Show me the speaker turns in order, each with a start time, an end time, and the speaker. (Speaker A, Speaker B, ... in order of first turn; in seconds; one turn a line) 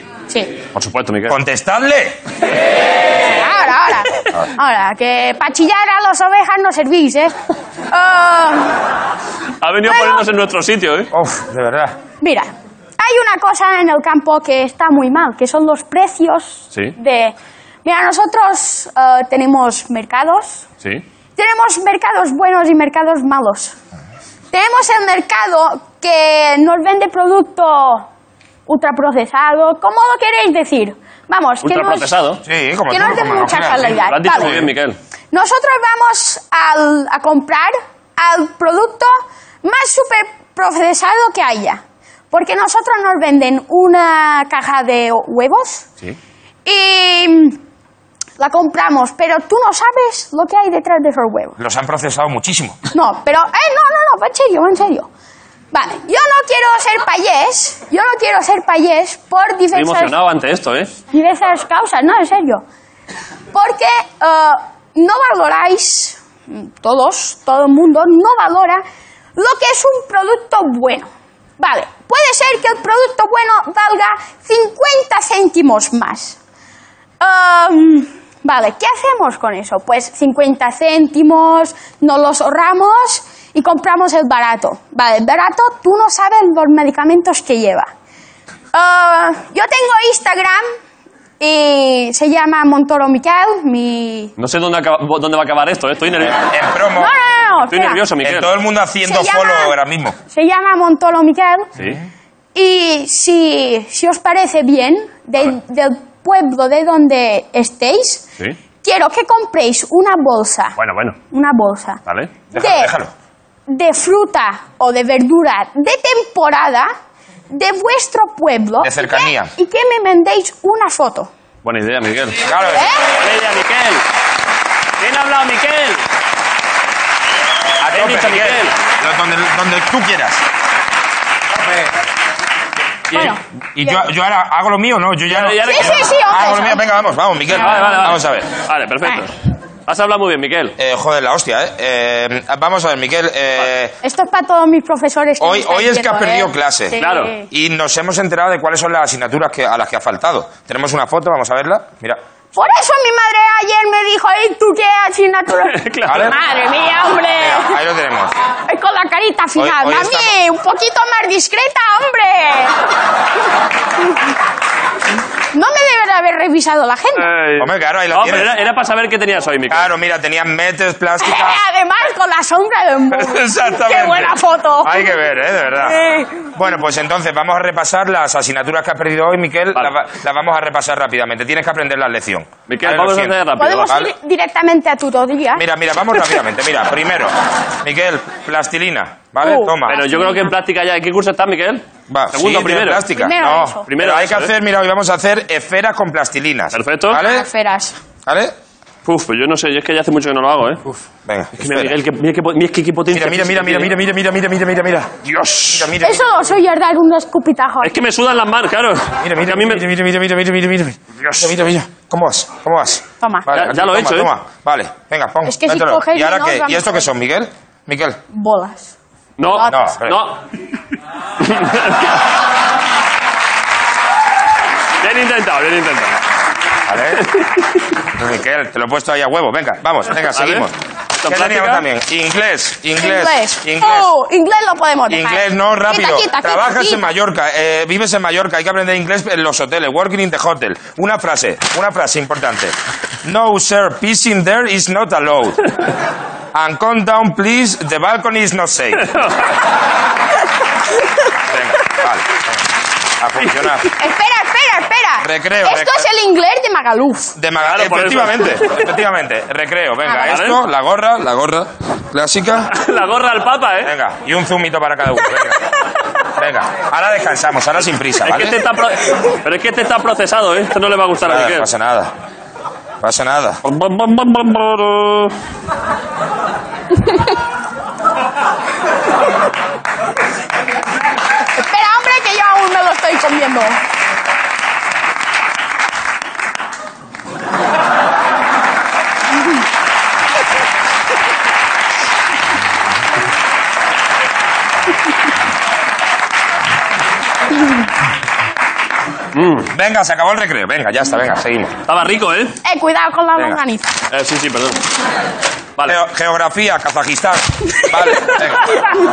Speaker A: 0.7-1.4
Speaker B: 1.3-2.2
Speaker C: 3.2-7.3
Speaker C: 7.9-8.8
Speaker A: 9.6-11.1
Speaker C: 9.8-10.2
Speaker B: 11.1-11.9
Speaker C: 12.2-20.6
Speaker C: 21.4-23.7
Speaker C: 24.5-28.1
Speaker C: 28.7-32.1
Speaker A: 31.6-32.4
Speaker B: 32.4-33.9
Speaker C: 32.9-34.7
Speaker A: 33.8-35.0
Speaker C: 35.3-45.9
Speaker C: 46.6-47.6
Speaker C: 48.4-51.5
Speaker B: 51.6-52.8
Speaker C: 52.9-55.1
Speaker C: 55.7-60.1
Speaker A: 59.7-61.0
Speaker C: 61.1-62.6
Speaker C: 63.5-68.8
Speaker C: 69.3-76.4
Speaker C: 77.2-87.9
Speaker C: 88.7-90.7
Speaker C: 91.4-94.3
Speaker A: 94.4-96.4
Speaker B: 96.2-97.1
Speaker C: 97.0-98.0
Speaker A: 97.7-98.5
Speaker B: 98.2-100.1
Speaker C: 99.0-99.8
Speaker C: 100.3-101.7
Speaker C: 102.5-108.2
Speaker C: 108.8-110.8
Speaker A: 110.8-111.2
Speaker C: 111.3-112.0
Speaker A: 112.1-112.3
Speaker C: 112.5-112.9
Speaker B: 112.5-113.1
Speaker C: 113.7-116.9
Speaker C: 117.5-121.3
Speaker B: 118.8-119.5
Speaker A: 121.6-122.4
Speaker B: 122.4-122.9
Speaker C: 122.7-123.0
Speaker A: 123.2-124.0
Speaker A: 125.0-126.0
Speaker B: 127.8-130.4
Speaker A: 127.9-128.7
Speaker B: 131.5-131.9
Speaker C: 133.1-133.9
Speaker B: 133.2-138.5
Speaker A: 135.3-136.1
Speaker C: 135.6-136.8
Speaker C: 137.5-138.1
Speaker A: 137.6-139.3
Speaker A: 139.9-140.8
Speaker B: 140.8-143.9
Speaker C: 144.0-147.5
Speaker B: 145.4-152.2
Speaker A: 147.0-147.3
Speaker C: 152.5-157.8
Speaker A: 155.7-156.3
Speaker B: 156.1-156.3
Speaker B: 157.4-158.3
Speaker C: 158.7-162.8
Speaker B: 159.6-160.3
Speaker C: 165.5-167.3
Speaker A: 167.2-169.9
Speaker B: 167.6-168.6
Speaker B: 169.7-171.6
Speaker C: 171.2-175.2
Speaker B: 173.1-183.3
Speaker C: 175.8-176.5
Speaker A: 182.7-184.0
Speaker C: 183.6-185.6
Speaker B: 185.5-187.3
Speaker B: 187.8-189.9
Speaker C: 189.4-190.5
Speaker A: 189.8-193.0
Speaker B: 192.1-197.5
Speaker C: 193.1-193.9
Speaker A: 193.9-194.5
Speaker A: 196.7-197.2
Speaker C: 197.1-198.0
Speaker B: 198.2-198.5
Speaker A: 199.0-200.8
Speaker B: 201.2-202.0
Speaker A: 201.6-203.9
Speaker B: 203.1-205.1
Speaker A: 205.2-205.9
Speaker B: 205.7-206.2
Speaker C: 206.0-208.0
Speaker A: 207.8-209.8
Speaker B: 209.2-218.2
Speaker A: 213.5-214.3
Speaker C: 215.4-217.0
Speaker C: 218.3-218.9
Speaker A: 219.4-220.4
Speaker C: 219.5-219.8
Speaker B: 219.7-220.2
Speaker A: 221.4-222.2
Speaker A: 225.0-226.2
Speaker B: 226.9-227.2
Speaker A: 227.1-227.4
Speaker B: 228.1-230.7
Speaker A: 230.2-230.7
Speaker A: 231.2-231.8
Speaker B: 231.2-234.1
Speaker C: 232.9-237.1
Speaker B: 235.1-245.6
Speaker B: 246.5-249.1
Speaker A: 249.1-249.5
Speaker B: 251.5-252.4
Speaker B: 253.2-253.9
Speaker A: 253.4-253.8
Speaker C: 253.9-257.3
Speaker B: 255.2-256.0
Speaker B: 257.4-262.7
Speaker A: 257.6-259.0
Speaker C: 260.0-260.4
Speaker A: 260.2-260.6
Speaker A: 262.7-263.9
Speaker B: 263.8-265.6
Speaker B: 266.4-268.6
Speaker A: 268.2-271.7
Speaker B: 271.2-272.1
Speaker B: 273.0-273.6
Speaker A: 273.6-275.3
Speaker C: 281.6-283.8
Speaker A: 299.3-299.7
Speaker B: 299.7-301.8
Speaker A: 301.9-302.6
Speaker C: 302.6-303.9
Speaker A: 304.1-304.8
Speaker B: 305.9-308.8